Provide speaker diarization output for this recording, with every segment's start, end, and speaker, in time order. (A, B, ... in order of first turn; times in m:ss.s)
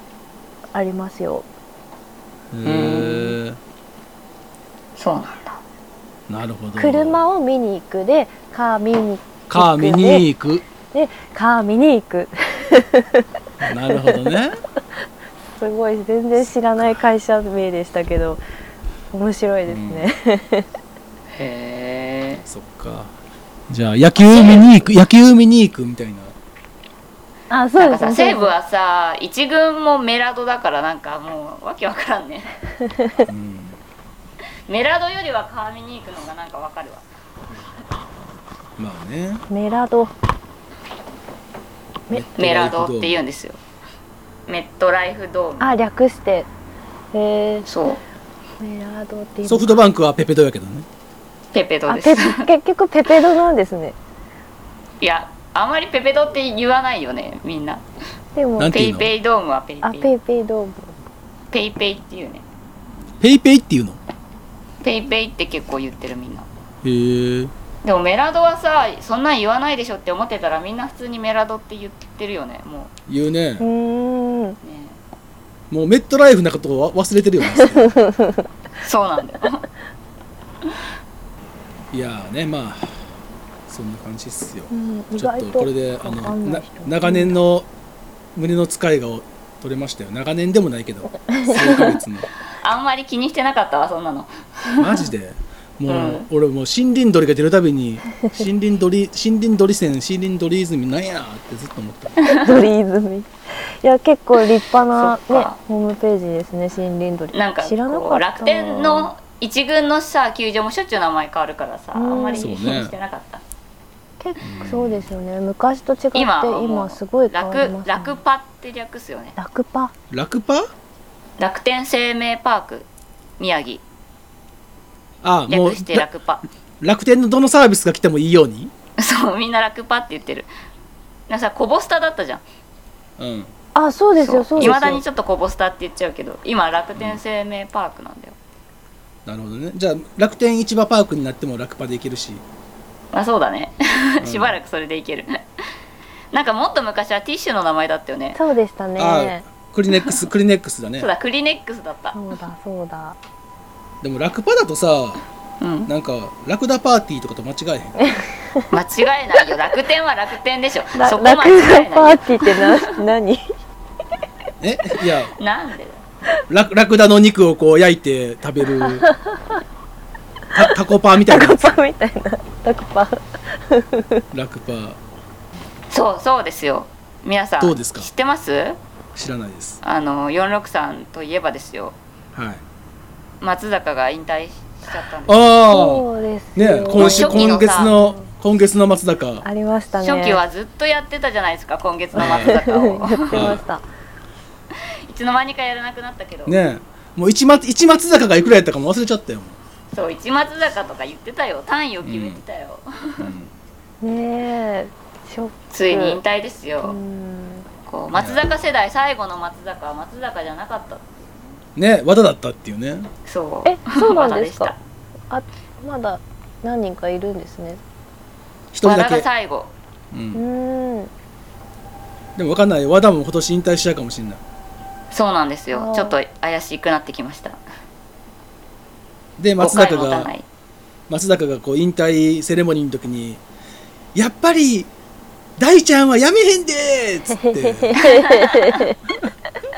0:00.7-0:01.5 A
0:02.5-0:03.6 B
0:02.6-0:03.4 C
0:05.0-0:05.6 C
0:06.3-0:07.2 B
0:06.8-0:10.2 A
0:09.5-0:10.6 B
0:10.9-0:13.2 A
0:13.6-0:14.6 B
0:13.9-0:14.3 A
0:15.6-0:18.4 A
0:16.4-0:16.8 B
0:19.1-0:20.7 A
0:19.7-0:20.1 B
0:21.3-0:22.4 C
0:22.5-0:23.1 B
0:23.7-0:26.4 B
0:27.5-0:28.5 A
0:27.8-0:32.5 C
0:33.3-0:33.8 B
0:34.7-0:37.1 C
0:38.8-0:39.4 B
0:39.5-0:40.1 A
0:42.1-0:43.2 B
0:42.4-0:43.6 C
0:44.5-0:45.7 C
0:45.6-0:46.5 A
0:47.1-0:47.7 A
0:47.7-0:48.0 C
0:48.6-0:49.8 A
0:49.4-0:50.9 B
0:51.5-0:52.5 C
0:51.9-0:54.0 A
0:55.0-0:57.8 C
0:58.4-0:58.8 A
0:58.6-0:59.1 B
0:58.7-1:00.1 C
0:59.8-1:00.9 A
1:01.5-1:02.4 C
1:03.2-1:04.0 B
1:04.8-1:06.5 C
1:06.8-1:07.5 B
1:07.8-1:12.9 C
1:13.1-1:13.6 B
1:13.6-1:14.6 A
1:14.6-1:15.0 C
1:15.7-1:17.9 B
1:17.6-1:18.5 A
1:18.8-1:19.6 C
1:21.9-1:23.0 B
1:23.7-1:27.7 B
1:24.7-1:27.4 A
1:28.4-1:32.3 B
1:31.3-1:32.0 A
1:32.6-1:35.0 C
1:34.8-1:42.2 B
1:35.9-1:36.3 C
1:42.4-1:49.1 A
1:44.9-1:45.6 C
1:47.3-1:53.4 C
1:52.0-1:52.8 A
1:52.4-1:52.9 B
1:54.2-1:58.2 A
1:54.4-1:55.1 B
1:56.1-1:59.4 C
1:59.4-1:59.9 A
2:00.1-2:00.7 B
2:01.4-2:02.9 C
2:03.4-2:03.8 C
2:05.2-2:06.1 B
2:05.5-2:06.4 C
2:06.8-2:08.7 B
2:09.0-2:10.5 C
2:11.3-2:12.4 C
2:13.2-2:13.5 B
2:13.8-2:15.0 A
2:14.2-2:18.4 C
2:14.6-2:14.9 B
2:19.3-2:22.4 B
2:23.1-2:25.4 C
2:24.2-2:24.6 B
2:26.3-2:28.4 C
2:28.4-2:29.5 A
2:29.0-2:31.1 B
2:30.0-2:30.2 C
2:31.0-2:32.2 C
2:32.1-2:33.2 A
2:34.0-2:35.2 B
2:35.6-2:35.9 C
2:35.9-2:38.0 B
2:38.0-2:38.6 A
2:38.7-2:42.8 C
2:41.0-2:43.5 A
2:44.6-2:45.3 B
2:45.4-2:46.0 C
2:46.5-2:49.0 B
2:48.8-2:49.6 A
2:50.5-2:51.7 B
2:51.3-2:54.2 A
2:54.3-2:55.0 B
2:55.9-2:58.8 C
2:57.6-2:58.1 B
2:59.2-2:59.8 B
2:59.8-3:02.0 C
3:02.4-3:02.6 B
3:03.4-3:05.4 C
3:05.3-3:09.4 B
3:05.7-3:08.3 A
3:07.0-3:07.9 C
3:09.4-3:10.4 A
3:10.0-3:13.5 C
3:12.2-3:13.8 A
3:12.2-3:12.6 B
3:13.3-3:13.6 B
3:15.1-3:16.7 C
3:16.5-3:19.6 B
3:19.9-3:23.3 C
3:22.0-3:22.4 B
3:23.2-3:23.5 B
3:24.0-3:26.2 A
3:25.7-3:27.0 C
3:26.8-3:27.7 A
3:27.9-3:31.4 C
3:28.1-3:28.5 B
3:31.8-3:33.1 B
3:33.3-3:34.8 C
3:33.7-3:34.7 A
3:35.3-3:37.8 A
3:38.7-3:39.3 B
3:38.8-3:39.7 C
3:40.1-3:40.4 B
3:40.3-3:41.1 A
3:42.4-3:44.4 B
3:45.1-3:47.6 C
3:45.7-3:46.2 A
3:49.4-3:50.3 B
3:49.6-3:50.4 C
3:51.1-3:53.4 B
3:54.2-3:54.9 B
3:55.6-3:58.0 B
3:57.4-3:59.0 A
3:58.0-3:58.8 C